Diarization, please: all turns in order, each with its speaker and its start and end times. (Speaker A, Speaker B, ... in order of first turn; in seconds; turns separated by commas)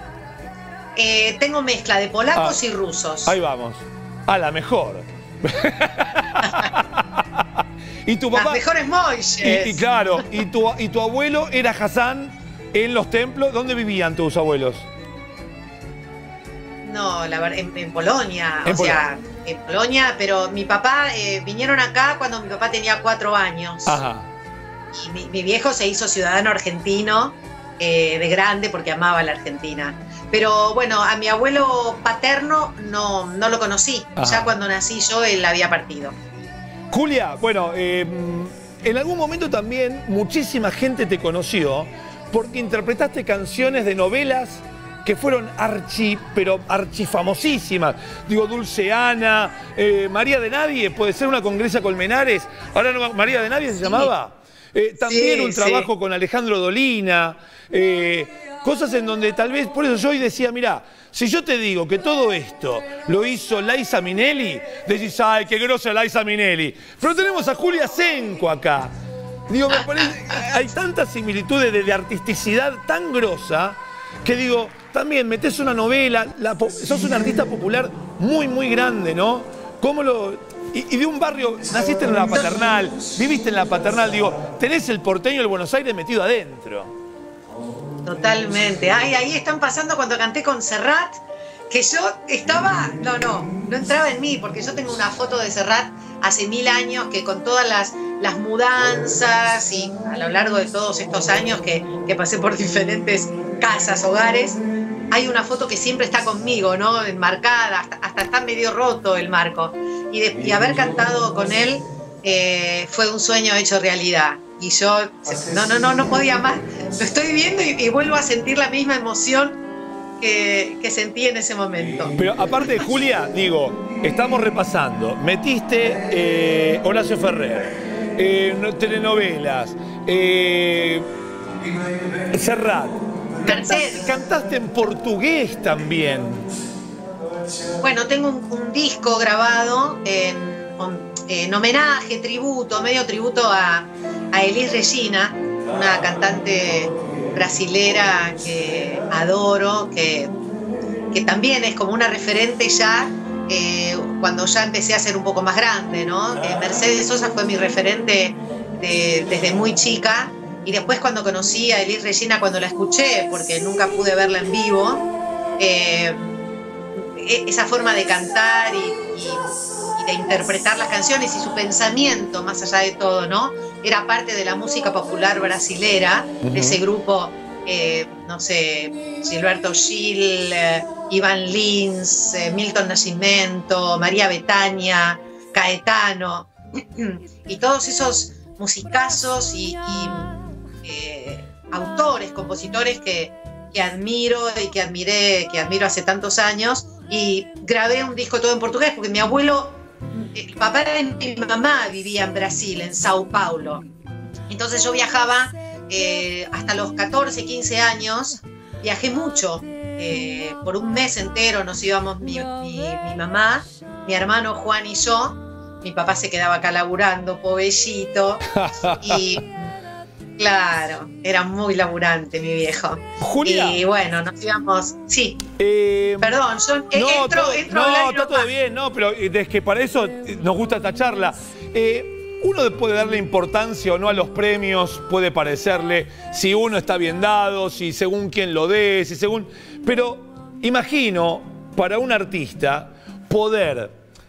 Speaker A: 0.9-3.4, Speaker B: 3.2-8.6, Speaker A: 6.4-6.7, Speaker A: 8.3-10.2, Speaker B: 9.4-14.9, Speaker A: 16.8-24.0, Speaker B: 18.6-19.0, Speaker B: 23.9-24.3, Speaker A: 24.9-36.1, Speaker B: 34.2-34.5, Speaker B: 36.9-68.9, Speaker A: 53.8-54.1, Speaker A: 55.0-55.9, Speaker B: 69.5-86.9, Speaker A: 88.0-104.6, Speaker A: 105.1-119.6, Speaker A: 120.2-122.2, Speaker B: 122.2-131.0, Speaker B: 132.3-136.5, Speaker A: 133.4-134.1, Speaker A: 137.8-150.3, Speaker A: 151.1-165.1, Speaker A: 165.6-166.4, Speaker A: 167.0-203.8, Speaker B: 176.4-176.8, Speaker A: 204.5-219.6, Speaker B: 218.5-219.2, Speaker A: 220.4-225.4, Speaker B: 223.2-223.8, Speaker B: 225.6-226.3, Speaker A: 226.2-228.5, Speaker B: 226.9-243.9